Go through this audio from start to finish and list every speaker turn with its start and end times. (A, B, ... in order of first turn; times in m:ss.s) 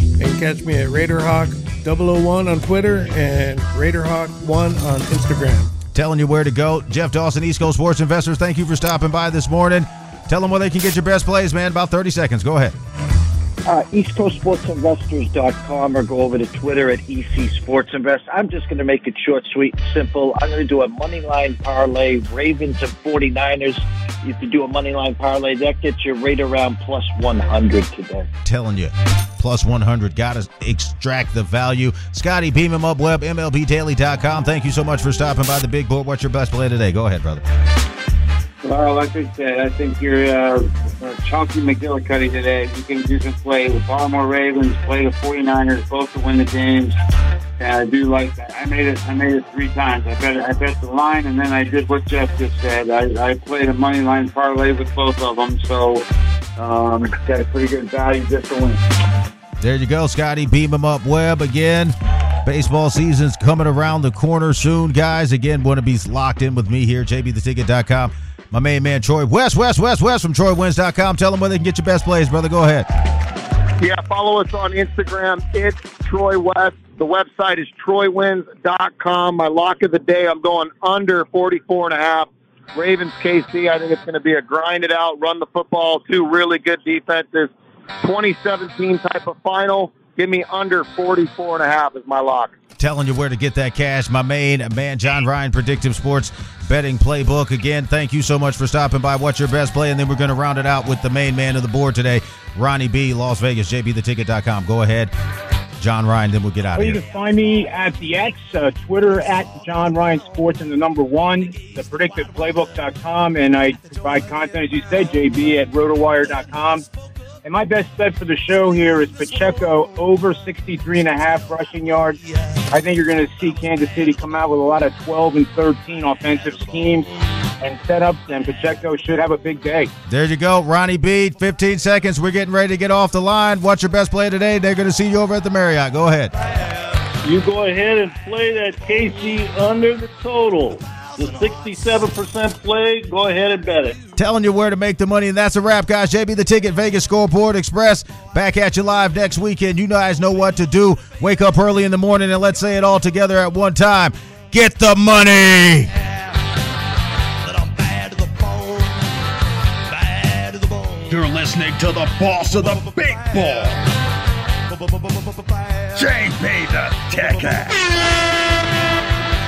0:00.2-0:05.7 A
0:05.9-0:12.8 B
0:13.6-0:28.3 C
0:28.4-0:37.4 B
0:38.6-0:47.0 D
0:47.6-0:56.0 D
0:56.6-0:58.8 D
0:59.6-1:12.9 B
1:13.8-1:32.6 E
1:32.8-1:45.1 B
1:45.8-1:47.0 B
1:46.8-1:56.8 F
1:57.4-2:09.9 F
2:10.1-2:16.3 B
2:17.2-2:24.0 G
2:24.2-2:35.9 B
2:37.4-2:39.0 H
2:39.9-2:43.9 H
2:44.7-2:47.8 H